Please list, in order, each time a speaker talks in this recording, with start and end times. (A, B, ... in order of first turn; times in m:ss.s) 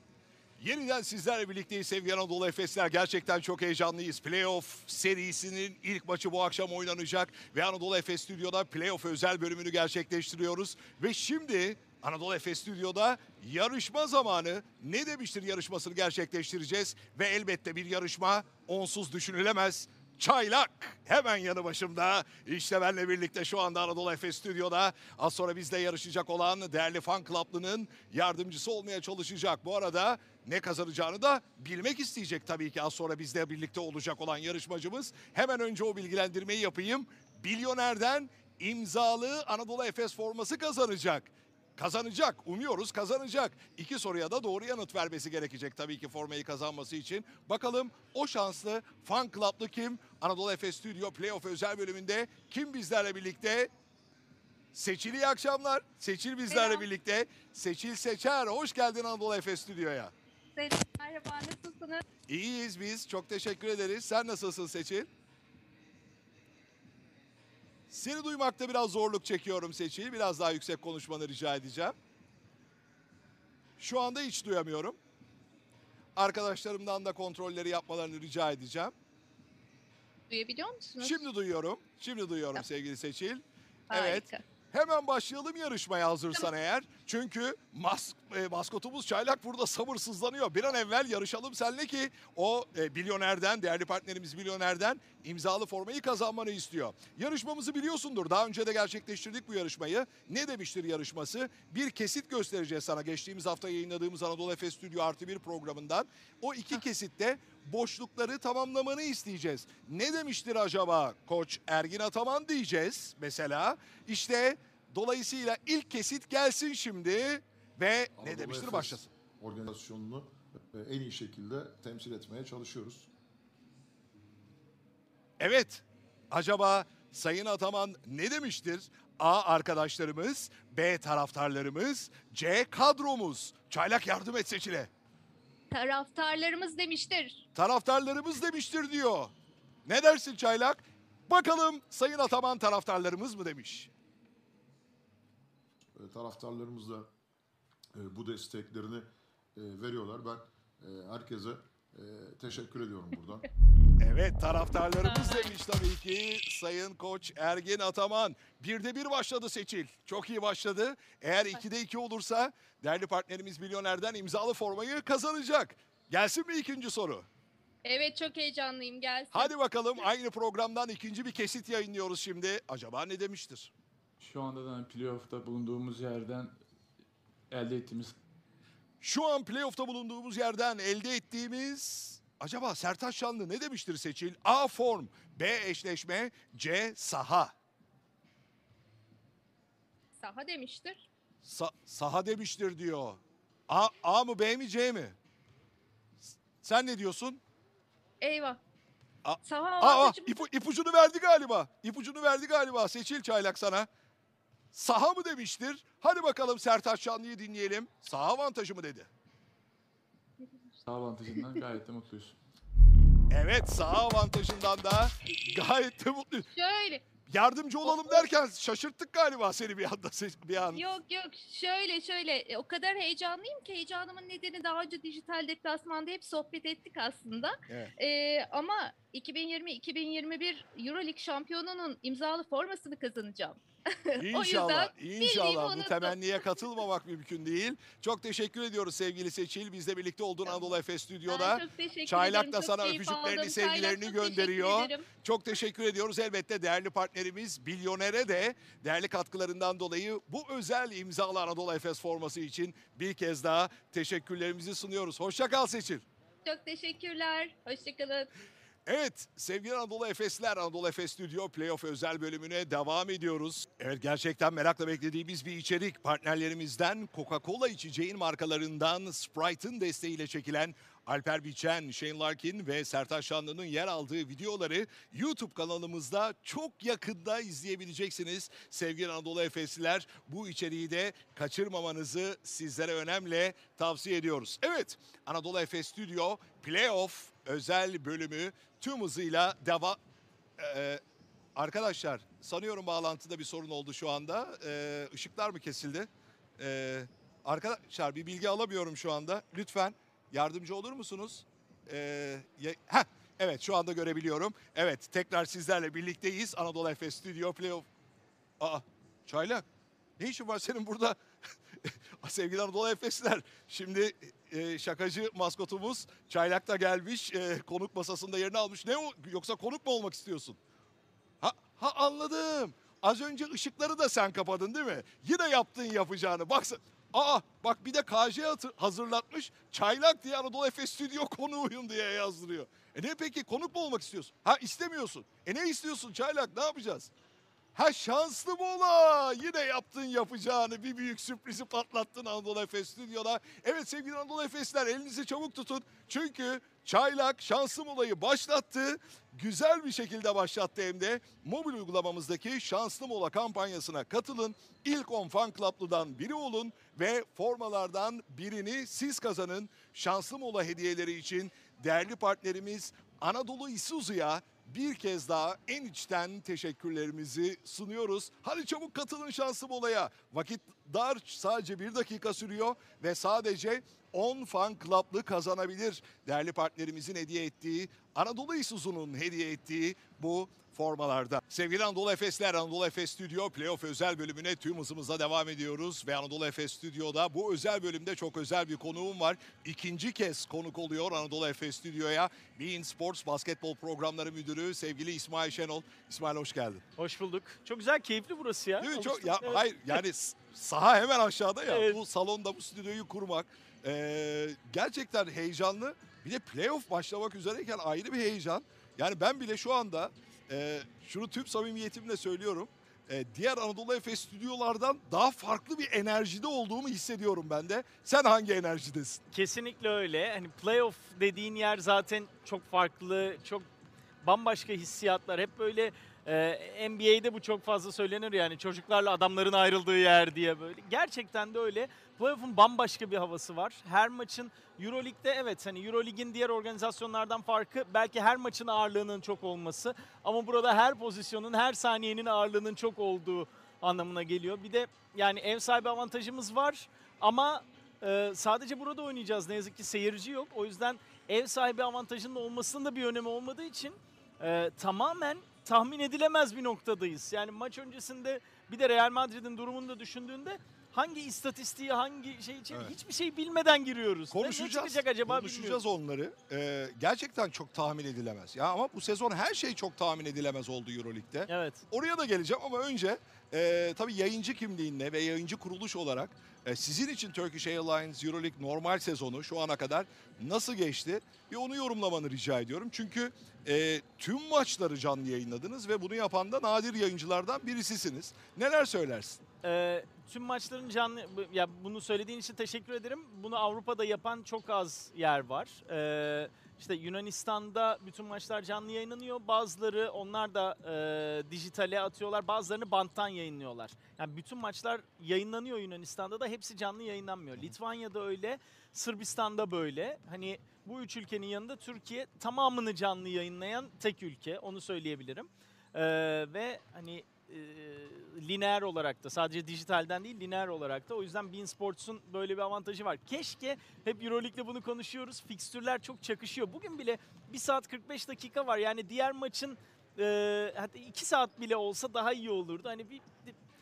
0:00.6-0:53.7 A
0:54.7-1:00.1 A
0:56.5-0:56.9 B
1:00.6-1:02.0 B
1:02.3-1:05.1 A
1:07.9-1:11.9 A
1:13.8-1:15.0 A
1:16.2-1:18.9 A
1:20.3-1:21.2 B
1:21.0-1:59.1 A
1:23.9-1:24.4 B
1:58.2-2:03.1 C
2:05.4-2:14.9 A
2:15.7-2:17.4 B
2:17.6-2:19.3 A
2:19.8-2:23.9 A
2:25.9-2:27.1 C
2:27.9-2:33.5 C
2:34.0-2:47.3 A
2:47.8-2:49.5 B
2:49.3-2:53.7 A
2:54.2-2:56.6 D
2:57.5-2:58.2 D
2:59.0-3:07.5 A
3:10.2-3:11.0 B
3:11.4-3:15.2 A
3:16.6-3:17.4 A
3:18.2-3:18.6 B
3:19.2-3:23.9 A
3:19.4-3:20.4 B
3:24.7-3:29.1 A
3:30.8-3:32.4 D
3:33.3-3:36.5 A
3:36.6-3:37.0 B
3:37.3-3:40.8 A
3:37.8-3:38.2 B
3:40.8-3:56.2 B
3:54.2-4:16.0 A
4:01.3-4:05.1 B
4:16.4-4:18.3 B
4:18.8-4:50.0 A
4:50.6-4:51.0 A
4:51.6-5:07.8 A
5:08.6-5:09.6 A
5:10.2-5:11.2 A
5:11.8-5:20.6 A
5:21.4-5:37.1 A
5:37.8-6:36.8 A
6:37.0-6:40.0 E
6:38.8-6:59.2 A
6:41.7-6:42.0 E
6:59.3-7:03.7 E
7:04.2-7:45.8 E
7:44.3-8:09.4 A
7:51.5-7:51.8 E
8:09.6-8:53.6 E